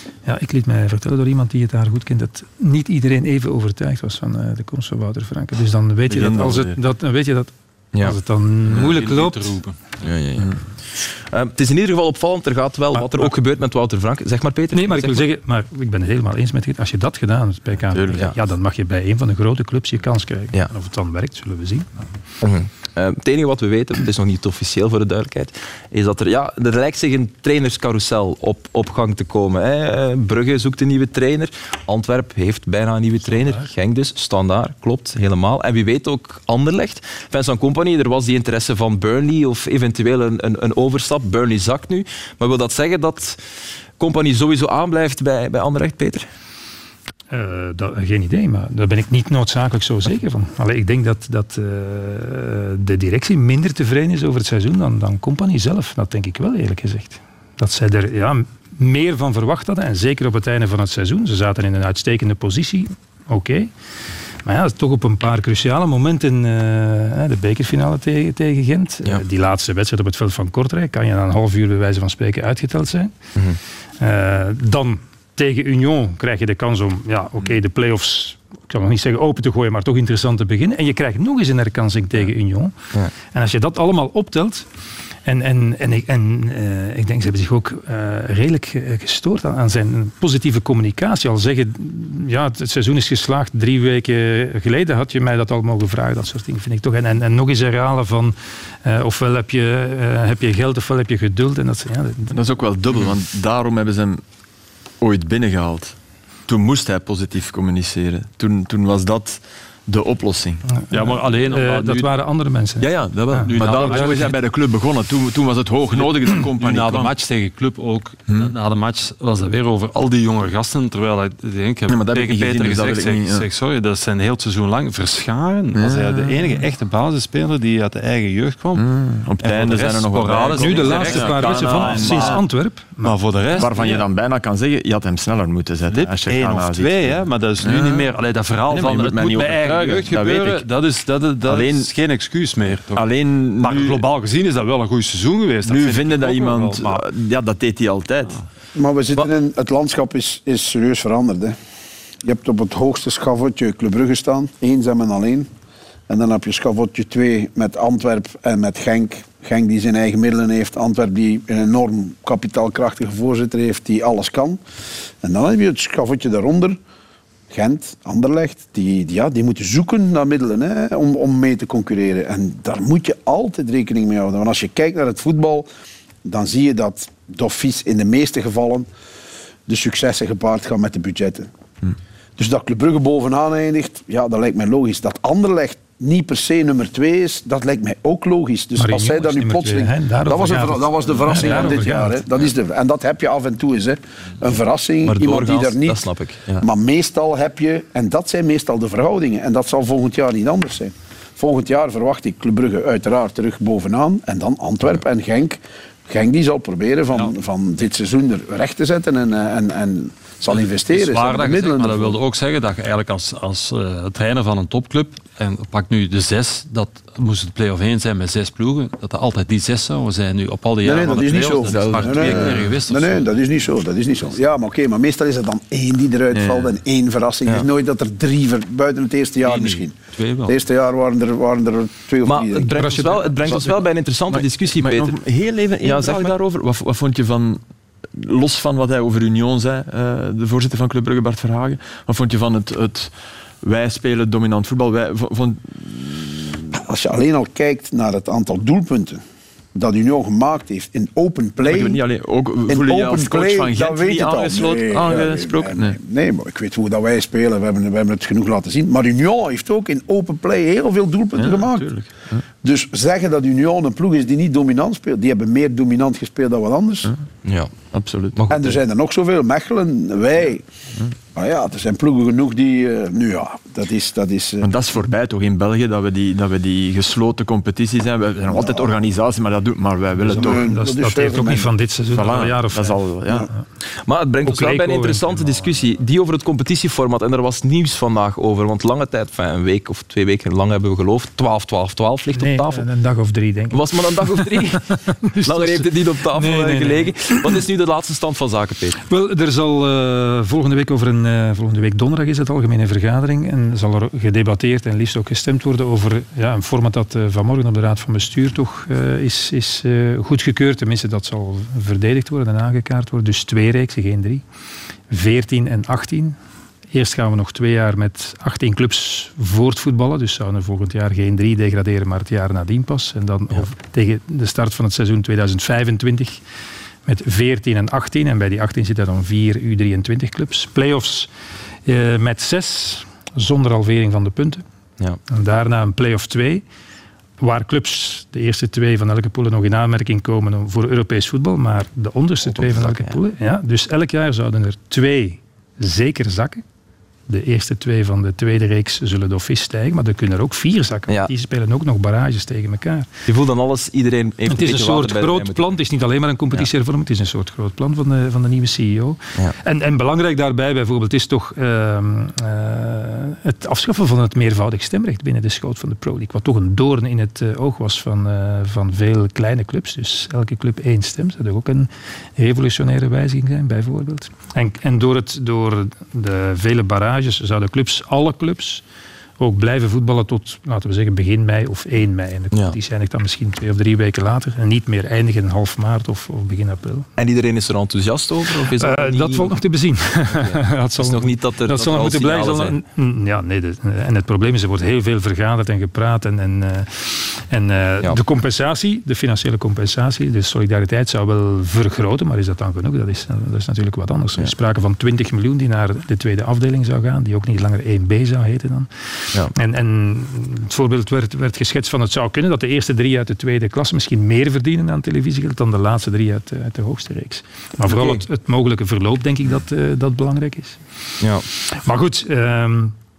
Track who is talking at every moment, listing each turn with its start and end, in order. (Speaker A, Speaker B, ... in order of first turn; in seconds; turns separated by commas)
Speaker A: 0.2-9.6, Speaker B: 6.1-6.8, Speaker C: 8.7-10.0, Speaker D: 10.0-15.2, Speaker A: 12.9-13.3, Speaker A: 14.7-22.0, Speaker B: 17.9-18.2, Speaker D: 22.4-43.4, Speaker D: 44.0-46.3, Speaker A: 47.3-63.7, Speaker A: 64.4-73.3, Speaker A: 74.0-84.7, Speaker A: 85.2-102.3, Speaker B: 102.3-104.2, Speaker B: 105.0-106.0, Speaker B: 106.5-111.2, Speaker A: 110.7-114.1, Speaker C: 110.9-112.1, Speaker B: 112.8-117.1, Speaker C: 113.4-114.4, Speaker C: 115.9-128.8, Speaker B: 121.9-123.5, Speaker B: 125.7-126.6, Speaker B: 128.7-132.4, Speaker C: 129.4-132.4, Speaker A: 130.6-133.2, Speaker C: 133.0-134.1, Speaker B: 133.5-138.1, Speaker C: 135.9-147.0, Speaker B: 138.7-140.7, Speaker B: 141.4-141.9, Speaker B: 142.9-144.0, Speaker B: 145.7-148.4, Speaker E: 148.7-151.6, Speaker E: 152.2-155.5, Speaker E: 156.1-164.6, Speaker E: 165.2-166.8, Speaker E: 167.5-175.7, Speaker E: 176.2-178.9, Speaker E: 179.7-181.5, Speaker E: 182.4-196.1, Speaker A: 188.8-192.2, Speaker D: 195.0-196.7, Speaker E: 196.6-212.2, Speaker C: 210.8-223.3, Speaker E: 220.8-229.9, Speaker B: 221.6-222.7, Speaker B: 226.3-226.7, Speaker C: 229.4-230.6, Speaker E: 230.4-233.0, Speaker D: 232.2-235.2, Speaker A: 232.8-233.4, Speaker B: 233.5-233.8, Speaker B: 234.3-246.6, Speaker D: 235.8-236.3, Speaker E: 246.7-249.2, Speaker E: 249.7-252.0, Speaker B: 251.6-255.9, Speaker E: 252.7-261.9, Speaker B: 261.4-262.4, Speaker E: 262.6-267.1, Speaker D: 267.4-267.8, Speaker B: 267.9-268.4, Speaker D: 268.3-268.8, Speaker E: 268.5-270.6, Speaker E: 271.3-274.7, Speaker B: 274.6-280.6, Speaker E: 278.5-278.9, Speaker A: 280.2-283.6, Speaker E: 280.3-281.7, Speaker B: 282.1-283.5, Speaker D: 284.1-292.8, Speaker A: 284.4-285.7, Speaker A: 292.3-297.6, Speaker D: 293.7-299.0, Speaker A: 299.0-314.4, Speaker A: 315.1-316.4, Speaker A: 316.9-326.4, Speaker A: 327.1-331.3, Speaker A: 331.9-334.6, Speaker A: 335.3-336.6, Speaker A: 337.4-346.6, Speaker D: 342.5-343.1, Speaker A: 347.3-353.1, Speaker D: 353.3-355.8, Speaker A: 354.5-378.8, Speaker A: 379.4-387.1, Speaker D: 387.2-389.6, Speaker A: 388.8-422.9, Speaker D: 390.3-392.8, Speaker D: 417.9-418.2, Speaker D: 421.2-421.4